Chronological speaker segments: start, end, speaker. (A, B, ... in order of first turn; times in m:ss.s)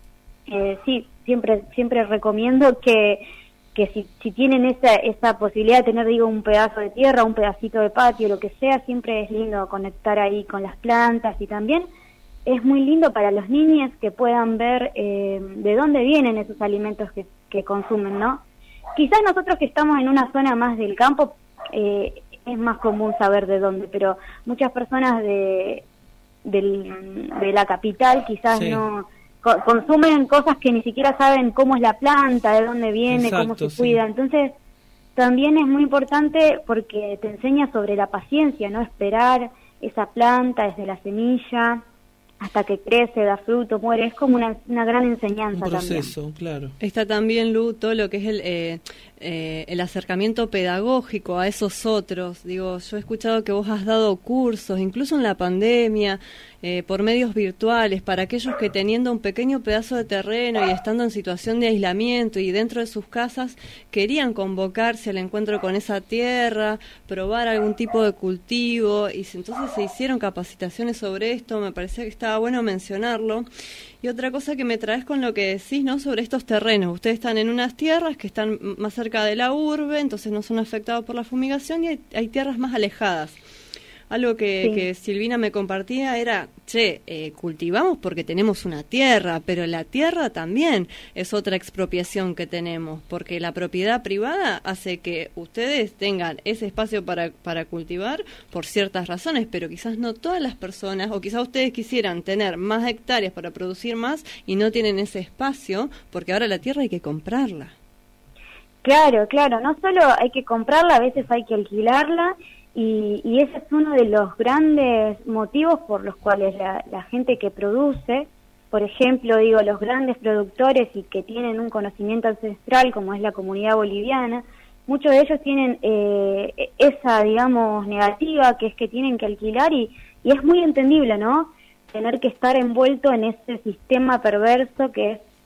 0:00.5-0:03.2 A
0:03.8-0:11.9 A
0:12.5-0:18.4 A
0:19.0-0:25.8 A
0:26.4-0:34.6 A
0:28.5-0:28.8 B
0:33.1-0:34.0 B
0:35.2-0:41.8 A
0:42.4-0:46.1 A
0:45.6-0:46.8 B
0:46.8-1:13.5 C
1:14.0-1:23.4 C
1:24.1-1:47.7 C
1:48.8-2:15.2 A